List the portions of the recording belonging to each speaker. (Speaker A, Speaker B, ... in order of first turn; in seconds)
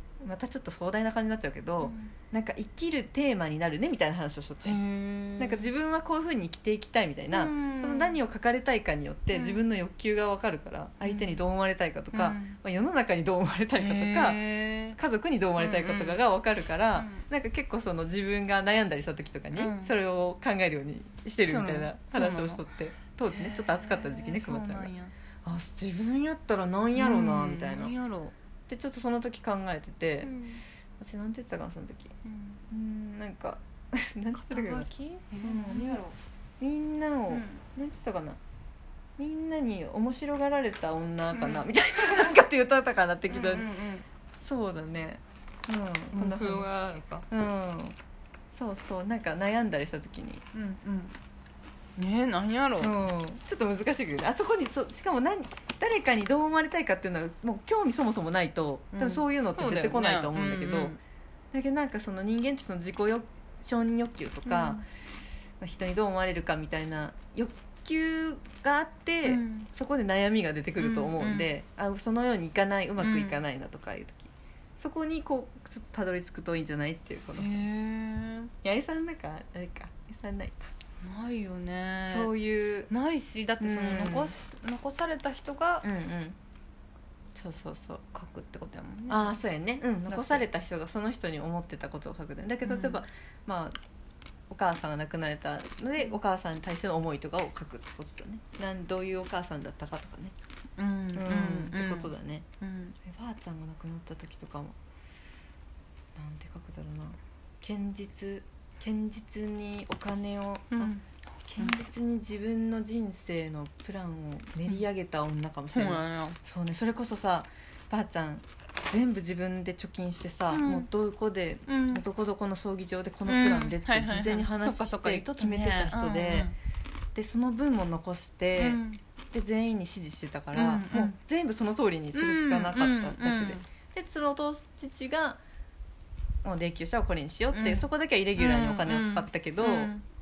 Speaker A: 0.2-4.8, 5.4-14.4, 15.0-24.9, 25.4-27.9, 28.7-30.3, 31.0-32.1, 32.7-34.9, 35.4-36.0, 36.6-38.4, 39.2-43.7, 44.4-46.7, 47.3-48.0, 48.5-50.4, 52.8-61.0, 61.5-64.8, 65.6-77.5, 78.6-80.7, 82.0-82.9, 83.6-84.3, 85.8-86.4, 87.3-88.0, 89.1-93.8, 94.5-100.3, 101.2-102.5, 103.0-104.8, 106.2-126.5, 127.2-128.8, 129.3-135.4, 136.4-139.9
Speaker B: 1.8-2.1, 4.6-5.7, 7.3-8.2, 9.3-9.6, 11.0-11.4, 12.1-12.6, 13.8-15.0, 15.6-16.2, 17.0-17.2, 19.5-19.9, 21.4-22.6, 23.3-25.1, 27.0-28.3, 30.2-30.6, 32.2-32.6, 34.3-36.2, 37.3-37.6, 41.3-42.2, 43.3-44.0, 46.1-47.3, 50.5-51.2, 52.0-52.9, 58.9-61.0, 64.5-64.8, 69.2-69.7, 70.8-71.5, 73.0-73.4, 77.3-78.5, 81.0-82.3, 82.9-85.9, 88.1-89.4, 90.1-90.4, 92.6-93.0, 100.8-103.0, 110.7-111.0, 115.7-116.4, 120.5-120.9, 121.7-122.0, 123.3-126.5, 128.6-129.0, 130.5-131.2, 132.1-133.6, 137.5-140.0